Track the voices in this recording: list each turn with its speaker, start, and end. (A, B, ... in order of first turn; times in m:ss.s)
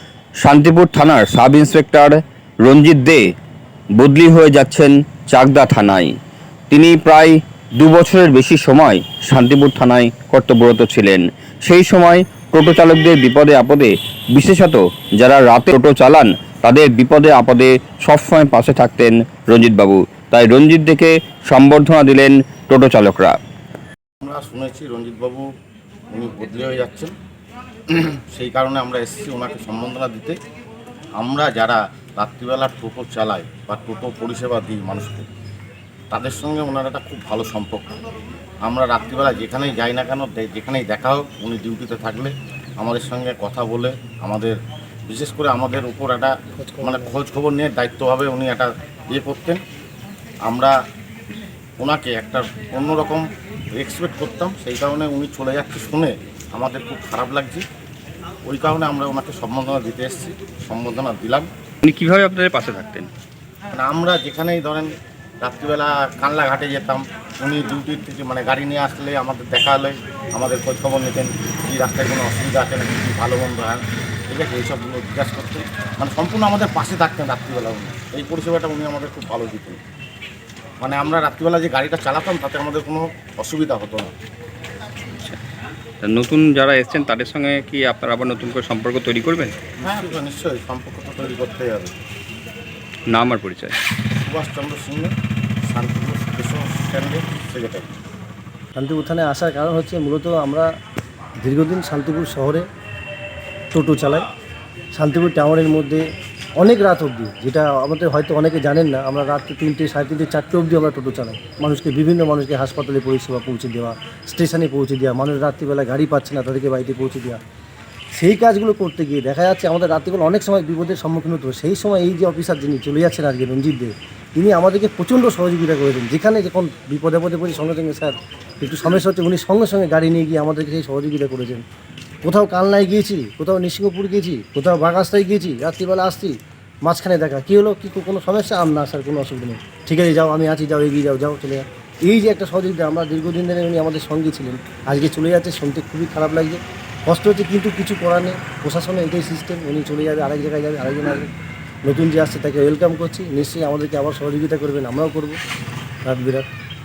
0:00.4-0:03.3 A
0:04.0-0:06.1 A
0:06.7-0:23.4 A
0:24.2-0:25.5 B
0:26.1-0:27.1 B
0:27.9-0:30.4 B
0:31.2-0:35.3 B
0:36.1-0:38.0 B
0:38.6-0:44.6 B
0:45.1-0:49.6 B
0:46.6-0:47.2 C
0:50.5-0:50.8 B
0:51.8-0:57.6 B
0:58.4-1:01.5 B
1:01.8-1:03.1 A
1:03.7-1:19.8 B
1:20.8-1:24.1 B
1:26.0-1:29.5 A
1:29.8-1:31.9 B
1:33.1-1:33.7 A
1:34.2-1:35.1 B
1:35.7-1:37.9 B
1:38.8-1:40.7 C
1:41.4-1:42.6 C
1:43.7-1:44.3 C
1:44.9-1:46.0 C
1:46.6-1:57.4 C
1:58.2-2:11.6 C
2:12.2-2:31.3 C
2:31.9-2:35.4 C
2:36.0-2:36.5 C